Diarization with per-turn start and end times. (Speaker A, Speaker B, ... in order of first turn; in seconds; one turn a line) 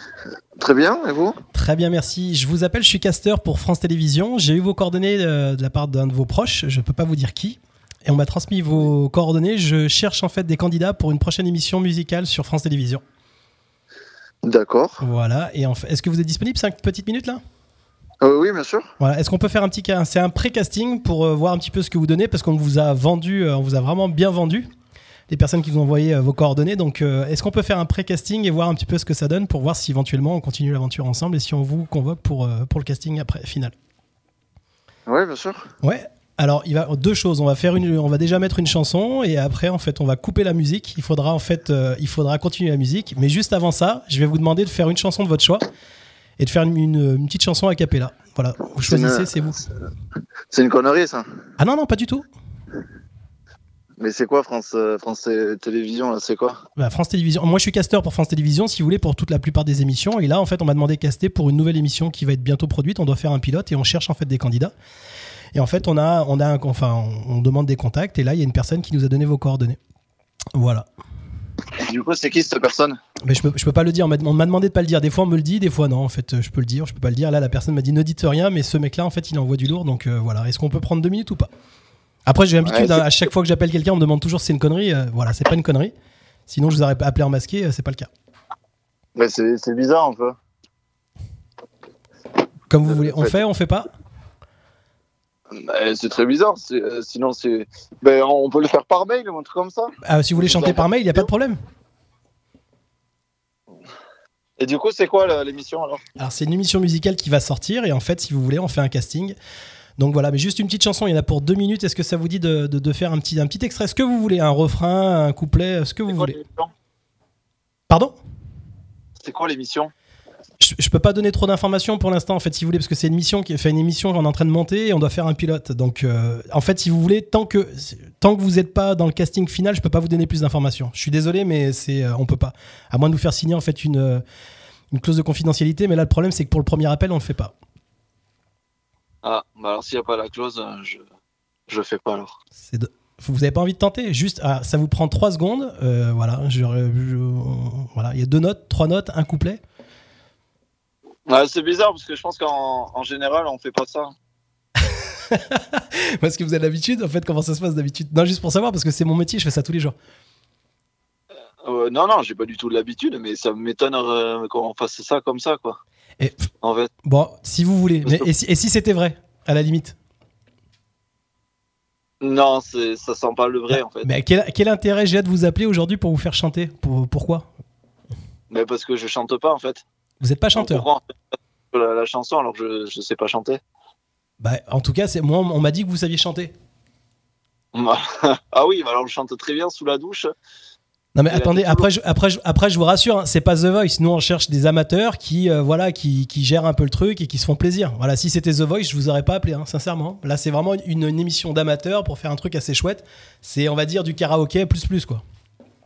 Speaker A: 0.6-1.4
Speaker B: 1.5-13.0
Speaker A: 14.4-15.0
Speaker B: 15.0-17.4
Speaker A: 18.2-18.9
Speaker B: 19.0-24.7
Speaker B: 25.3-33.7
Speaker A: 35.1-35.7
Speaker B: 35.8-45.6
Speaker B: 46.4-49.6
Speaker A: 48.8-49.5
Speaker A: 50.5-51.2
Speaker B: 51.6-52.2
Speaker A: 54.0-56.6
Speaker B: 56.8-64.7
Speaker B: 65.5-69.8
Speaker B: 70.5-70.9
Speaker A: 71.8-73.0
Speaker B: 73.2-81.5
Speaker B: 82.2-85.9
Speaker A: 82.6-83.0
Speaker B: 86.5-88.1
Speaker A: 89.2-90.3
Speaker B: 92.7-93.9
Speaker A: 92.9-93.4
Speaker A: 95.5-101.2
Speaker B: 100.0-101.6
Speaker A: 104.6-106.0
Speaker B: 106.2-109.3
Speaker B: 110.0-116.4
Speaker A: 116.1-116.7
Speaker B: 117.9-118.2
Speaker A: 119.2-119.9
Speaker B: 120.6-134.2
Speaker B: 134.9-137.5
Speaker A: 139.2-141.0
Speaker A: 141.7-142.4
Speaker B: 142.6-149.6
Speaker A: 151.3-154.1
Speaker B: 154.8-159.9
Speaker A: 161.6-165.8
Speaker B: 166.2-166.5
Speaker A: 166.6-166.9
Speaker B: 167.0-169.9
Speaker A: 168.0-168.3
Speaker A: 172.2-174.1
Speaker B: 173.7-177.5
Speaker A: 178.5-179.8
Speaker B: 180.2-180.8
Speaker A: 180.5-181.1
Speaker A: 181.7-183.6
Speaker B: 184.4-186.5
Speaker A: 187.7-190.3
Speaker B: 191.1-205.2
Speaker A: 191.3-191.9